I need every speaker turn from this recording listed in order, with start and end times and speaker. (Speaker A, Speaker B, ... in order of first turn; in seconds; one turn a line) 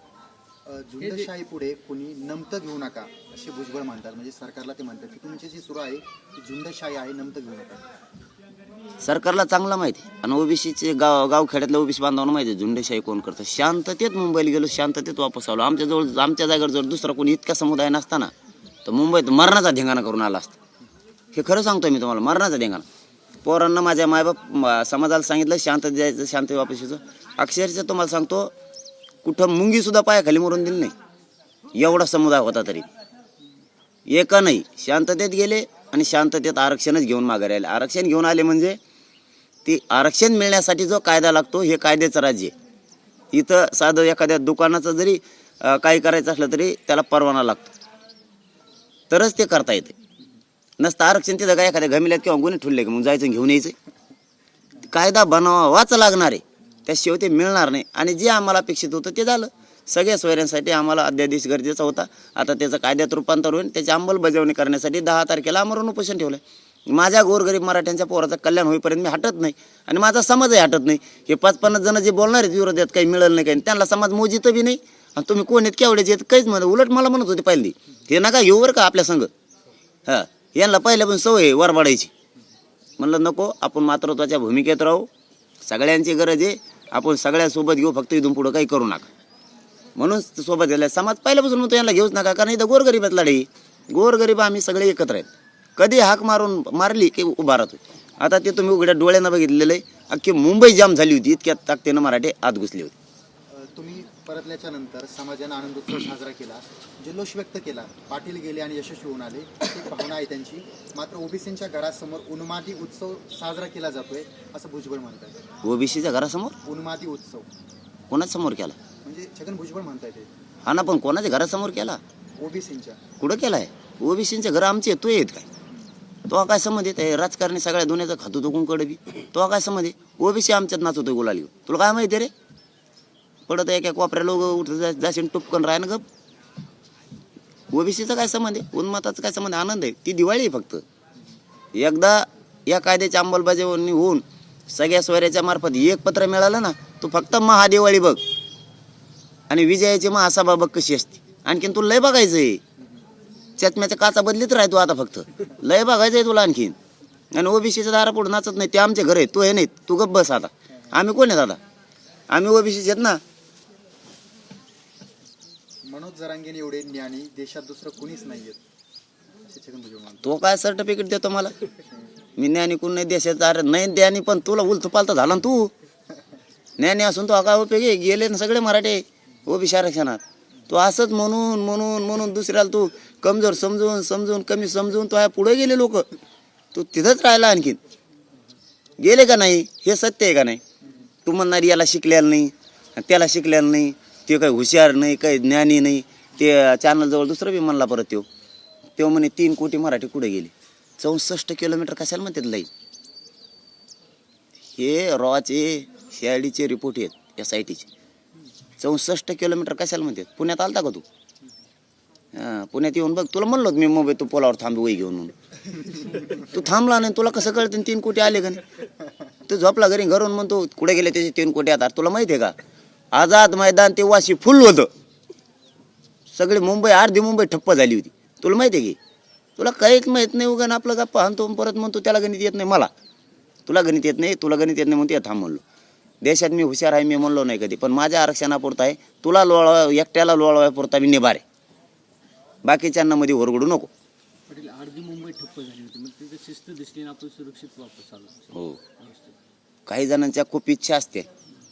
Speaker A: 0.7-7.8
Speaker B: 1.0-1.3
Speaker C: 9.0-18.3
Speaker C: 18.9-20.6
Speaker C: 21.3-22.9
Speaker C: 23.4-28.5
Speaker C: 29.2-30.9
Speaker C: 31.7-32.9
Speaker C: 34.1-38.8
Speaker C: 39.6-42.5
Speaker C: 43.3-47.7
Speaker C: 49.1-50.0
Speaker C: 50.8-53.8
Speaker C: 54.8-79.3
Speaker C: 80.1-82.1
Speaker C: 83.0-85.1
Speaker C: 85.7-89.1
Speaker C: 90.0-103.0
Speaker A: 103.5-115.4
Speaker C: 115.6-116.6
Speaker A: 116.6-117.5
Speaker C: 118.1-118.8
Speaker A: 119.0-120.3
Speaker C: 120.7-122.0
Speaker A: 122.4-123.0
Speaker C: 123.2-125.5
Speaker C: 126.3-132.3
Speaker C: 133.5-136.0
Speaker C: 137.7-140.8
Speaker C: 141.8-148.2
Speaker C: 149.5-152.6
Speaker C: 153.6-156.8
Speaker C: 157.3-161.6
Speaker C: 162.3-163.2
Speaker A: 165.8-168.6
Speaker A: 169.5-170.3
Speaker C: 170.2-171.6
Speaker C: 172.4-175.7
Speaker C: 176.8-186.1
Speaker C: 186.7-187.8
Speaker C: 189.0-190.6
Speaker C: 191.2-198.3
Speaker C: 199.0-202.7
Speaker C: 204.8-207.9
Speaker C: 208.8-211.0
Speaker C: 212.3-215.3
Speaker C: 216.1-218.6
Speaker C: 219.5-222.6
Speaker C: 223.1-224.9
Speaker C: 226.3-229.0
Speaker C: 229.6-232.9
Speaker C: 233.7-235.6
Speaker C: 236.2-241.4
Speaker C: 242.6-243.9
Speaker B: 244.5-249.4
Speaker C: 248.5-248.8
Speaker C: 249.9-251.3